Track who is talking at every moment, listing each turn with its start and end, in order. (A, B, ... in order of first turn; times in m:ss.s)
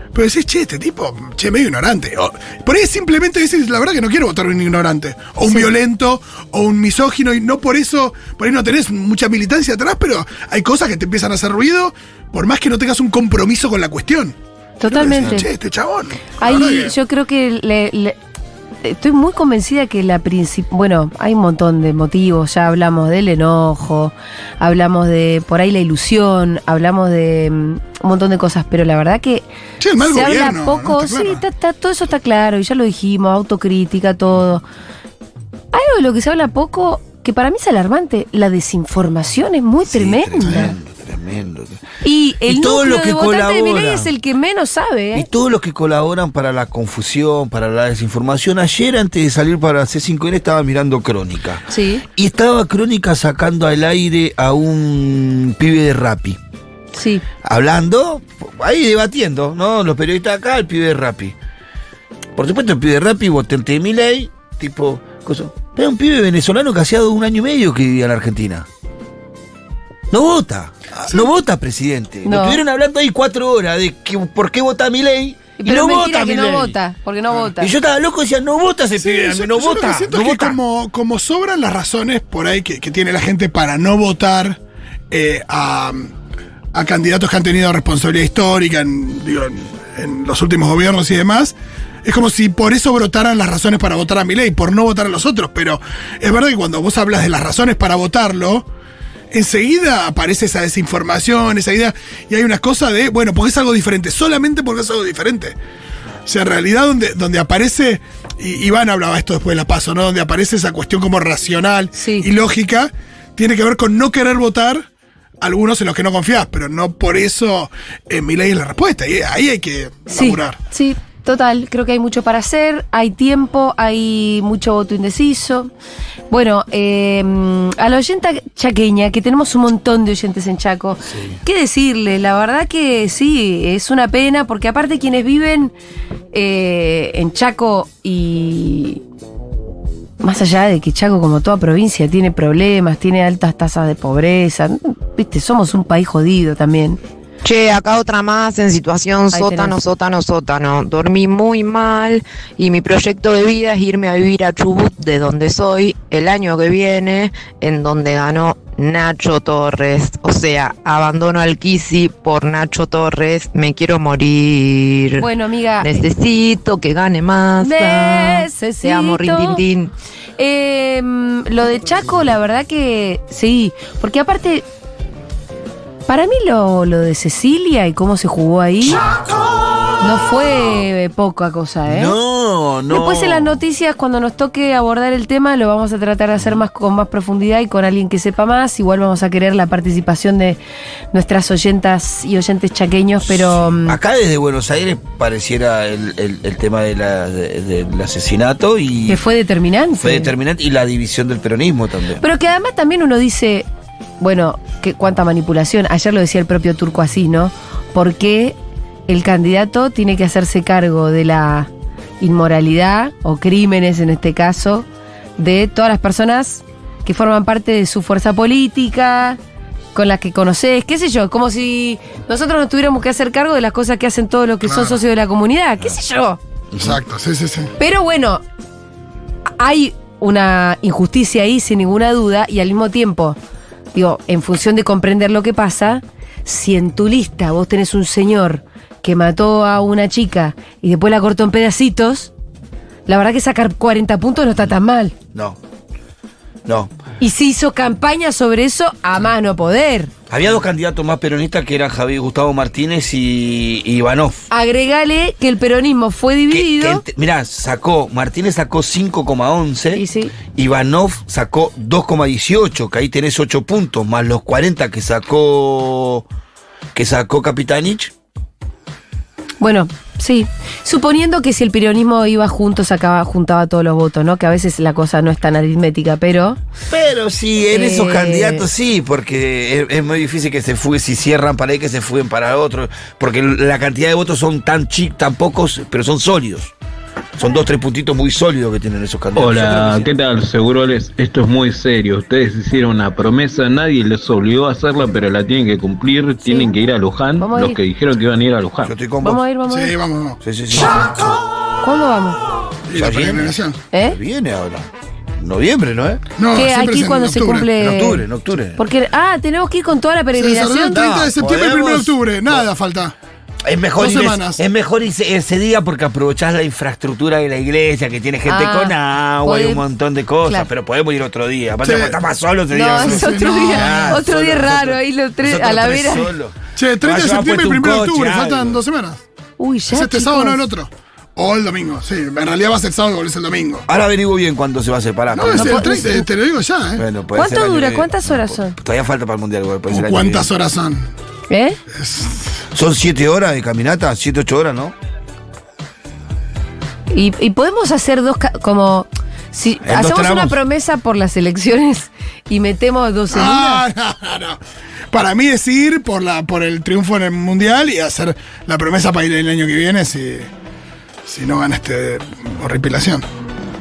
0:00.1-0:16.9 A
0:14.8-0:15.5 B
0:16.4-0:18.2 B
0:18.8-0:29.4 B
0:29.8-0:31.4 A
0:30.0-0:34.6 B
0:35.7-0:40.7 B
0:39.9-0:41.8 C
0:40.4-0:40.7 A
0:42.0-0:45.3 B
0:42.5-0:44.1 C
0:45.2-0:51.6 C
0:51.7-0:52.0 B
0:52.2-0:56.4 C
0:56.9-0:57.2 B
0:57.4-1:01.4 C
1:02.4-1:08.7 C
1:10.1-1:16.7 C
1:11.0-1:11.3 A
1:12.2-1:12.6 B
1:15.6-1:17.7 B
1:17.6-1:20.6 C
1:19.0-1:24.6 A
1:25.1-1:26.1 A
1:26.7-1:38.7 A
1:39.3-1:45.6 A
1:46.3-1:54.9 A
1:52.0-1:52.3 B
1:55.4-2:00.6 A
2:00.1-2:05.7 B
2:06.3-2:15.7 B
2:16.3-2:19.0 B
2:20.2-2:27.0 B
2:27.4-2:45.3 D
2:29.3-2:29.8 B
2:45.2-2:46.0 B
2:45.8-2:49.9 D
2:47.6-2:49.6 B
2:50.4-2:54.6 B
2:56.1-2:59.0 B
3:00.0-3:02.2 B
3:01.9-3:03.6 C
3:02.9-3:10.6 B
3:11.1-3:14.0 B
3:13.3-3:19.2 C
3:19.1-3:20.3 B
3:20.0-3:22.2 C
3:22.2-3:23.7 B
3:24.2-3:28.6 B
3:29.1-3:31.7 B
3:32.2-3:34.9 B
3:35.4-3:39.4 B
3:40.0-3:46.4 B
3:44.7-3:45.0 A
3:46.7-3:47.0 C
3:46.8-3:47.7 A
3:47.8-3:48.4 B
3:49.6-3:53.4 B
3:53.9-4:02.3 B
4:03.1-4:05.1 B
4:06.7-4:06.9 C
4:07.2-4:10.1 B
4:10.3-4:14.5 C
4:14.5-4:17.0 B
4:16.5-4:20.0 C
4:19.9-4:20.3 B
4:20.5-4:26.2 C
4:27.0-4:28.1 C
4:29.6-4:36.6 B
4:36.9-4:46.7 C
4:37.7-4:38.7 B
4:47.4-4:50.1 C
4:49.4-4:58.9 E
4:57.4-4:57.8 B
4:58.8-4:59.4 C
4:59.2-5:00.0 B
4:59.7-5:00.4 A
5:00.4-5:01.1 C
5:01.8-5:02.4 B
5:02.9-5:03.8 A
5:03.0-5:04.9 C
5:03.9-5:04.2 B
5:05.4-5:06.2 C
5:06.4-5:07.7 A
5:06.5-5:08.2 B
5:07.8-5:08.8 C
5:08.8-5:11.0 B
5:10.4-5:13.2 A
5:10.9-5:12.7 C
5:13.6-5:28.8 C
5:14.0-5:14.6 A
5:18.5-5:19.8 B
5:21.8-5:22.2 A
5:22.7-5:26.3 B
5:23.0-5:24.2 A
5:26.8-5:29.2 A
5:29.6-5:30.6 B
5:29.9-5:33.8 A
5:33.9-5:36.1 C
5:35.3-5:37.0 A
5:35.5-5:36.3 B
5:37.0-5:40.5 C
5:37.3-5:38.8 B
5:39.9-5:41.1 A
5:41.5-5:41.8 B
5:42.0-5:42.5 A
5:42.7-5:45.0 C
5:47.1-5:53.8 B
5:49.8-5:50.6 C
5:53.3-5:54.6 A
5:55.1-6:00.5 A
6:01.3-6:03.2 A